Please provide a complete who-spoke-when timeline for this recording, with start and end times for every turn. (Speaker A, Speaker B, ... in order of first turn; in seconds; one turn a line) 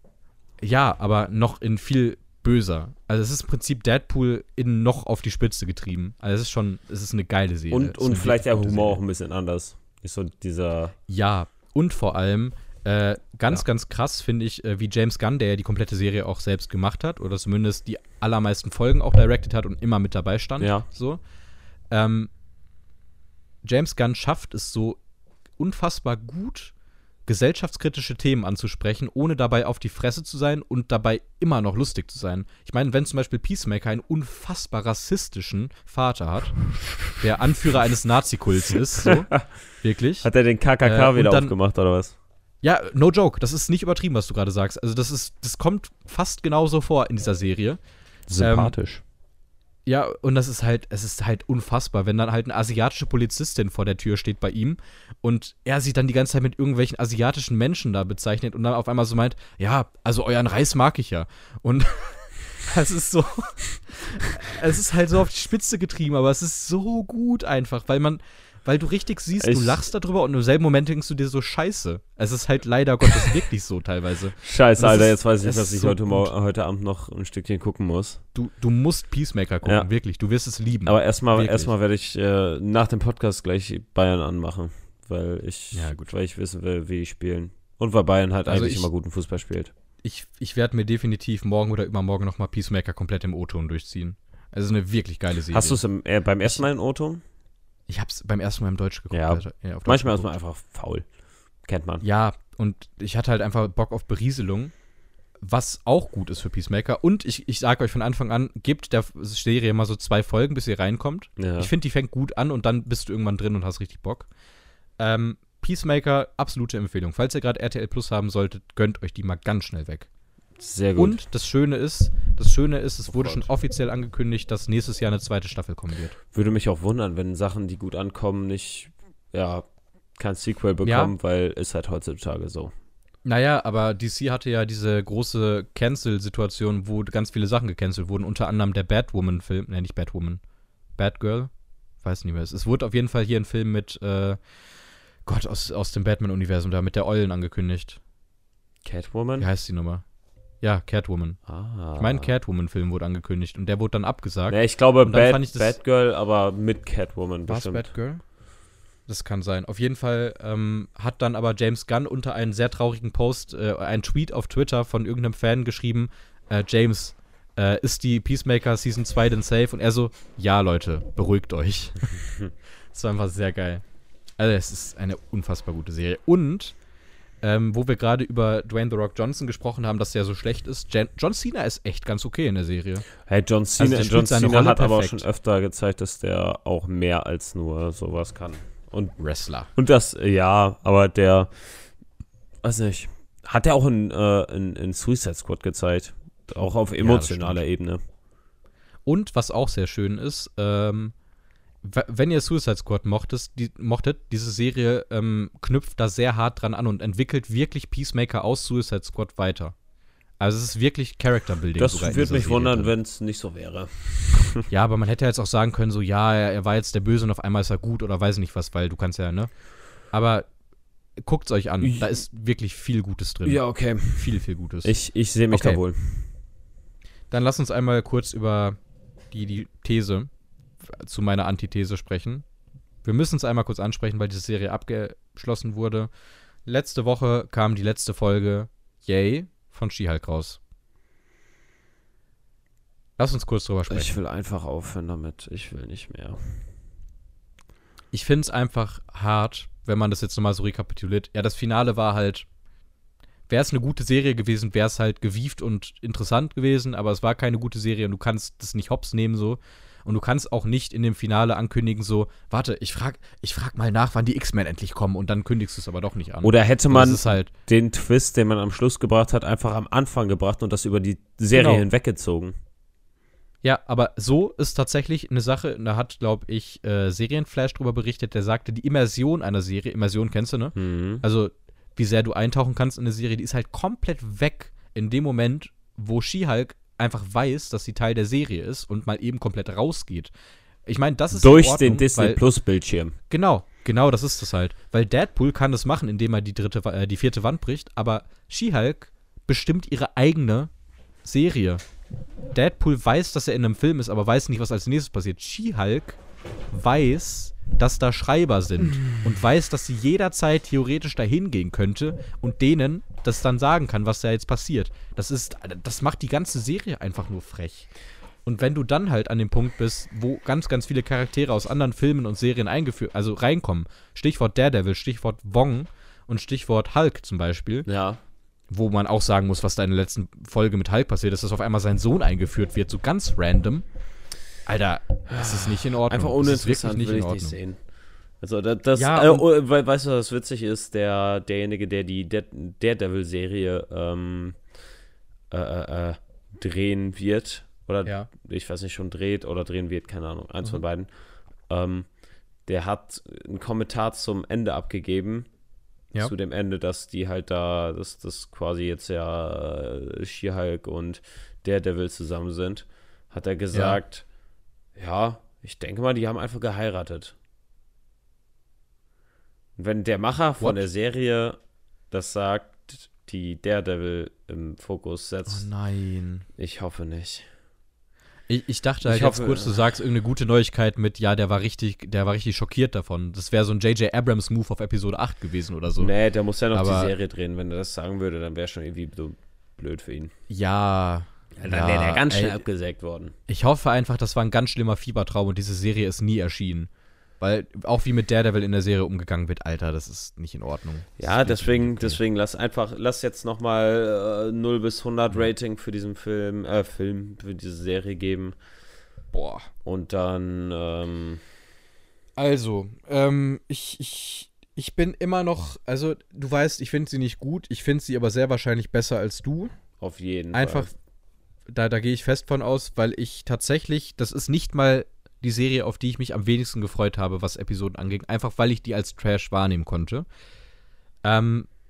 Speaker A: 0.6-9.0
Speaker B: 7.7-10.9
Speaker A: 11.1-21.2
Speaker B: 20.6-20.9
Speaker A: 21.9-22.3
Speaker A: 23.6-25.0
Speaker A: 25.6-26.7
Speaker A: 27.2-40.3
Speaker B: 39.0-39.4
Speaker B: 40.2-42.1
Speaker A: 40.8-41.5
Speaker A: 42.6-47.8
Speaker B: 48.3-49.0
Speaker A: 48.4-48.7
Speaker A: 49.9-76.3
Speaker B: 69.4-69.8
Speaker B: 74.4-78.2
Speaker A: 78.3-81.7
Speaker B: 80.8-89.7
Speaker A: 85.7-86.1
Speaker A: 88.5-88.9
Speaker A: 90.0-95.8
Speaker B: 95.5-97.2
Speaker A: 97.9-100.3
Speaker B: 99.1-101.1
Speaker B: 101.6-102.0
Speaker A: 102.0-104.7
Speaker A: 105.4-114.3
Speaker B: 111.4-111.7
Speaker A: 115.0-120.1
Speaker B: 120.6-121.2
Speaker A: 121.0-126.2
Speaker B: 123.1-123.5
Speaker B: 126.3-129.6
Speaker B: 130.2-132.7
Speaker A: 130.8-131.1
Speaker A: 133.2-140.4
Speaker A: 140.9-144.4
Speaker A: 145.2-148.0
Speaker B: 148.8-149.5
Speaker A: 149.4-150.0
Speaker A: 150.6-151.4
Speaker B: 151.5-152.3
Speaker A: 151.9-155.8
Speaker B: 154.5-157.9
Speaker A: 157.5-158.2
Speaker A: 159.1-172.2
Speaker A: 172.9-173.8
Speaker A: 174.4-176.8
Speaker A: 177.4-183.1
Speaker B: 183.3-189.2
Speaker A: 183.8-185.2
Speaker A: 189.2-189.7
Speaker B: 189.7-191.9
Speaker B: 192.6-198.0
Speaker A: 197.0-197.6
Speaker A: 199.0-201.1
Speaker A: 201.8-209.7
Speaker A: 210.4-212.9
Speaker B: 211.8-214.7
Speaker A: 214.7-220.5
Speaker A: 221.2-224.9
Speaker B: 221.8-222.2
Speaker B: 223.4-226.3
Speaker A: 225.5-225.8
Speaker A: 227.3-228.8
Speaker A: 229.3-230.3
Speaker A: 230.8-232.4
Speaker A: 233.0-236.1
Speaker A: 236.6-240.6
Speaker A: 243.2-244.1
Speaker B: 243.9-246.5
Speaker A: 248.1-252.4
Speaker A: 253.5-267.5
Speaker B: 266.4-272.6
Speaker A: 271.5-271.8
Speaker A: 273.6-290.3
Speaker B: 280.8-281.2
Speaker A: 290.9-292.4
Speaker B: 291.3-293.1
Speaker A: 293.3-300.7
Speaker A: 301.2-301.8
Speaker A: 302.5-306.2
Speaker A: 306.7-317.9
Speaker A: 318.4-327.9
Speaker B: 327.9-328.2
Speaker A: 328.7-333.9
Speaker A: 334.6-337.6
Speaker B: 335.3-337.8
Speaker B: 338.4-344.6
Speaker A: 338.9-339.4
Speaker B: 345.5-351.1
Speaker B: 351.7-352.1
Speaker B: 352.6-355.5
Speaker B: 356.1-364.2
Speaker A: 363.7-364.0
Speaker B: 364.9-367.3
Speaker B: 369.8-371.6
Speaker B: 372.1-375.7
Speaker A: 375.5-376.4
Speaker B: 376.6-377.5
Speaker A: 378.5-386.1
Speaker B: 379.0-379.9
Speaker B: 386.0-390.3
Speaker A: 386.7-387.1
Speaker A: 390.5-392.6
Speaker B: 391.6-393.3
Speaker A: 393.5-402.2
Speaker B: 401.2-408.6
Speaker A: 409.3-409.7
Speaker B: 409.8-411.4
Speaker A: 412.4-419.7
Speaker B: 420.0-420.9
Speaker A: 420.5-420.9
Speaker A: 421.7-430.2
Speaker A: 431.2-431.7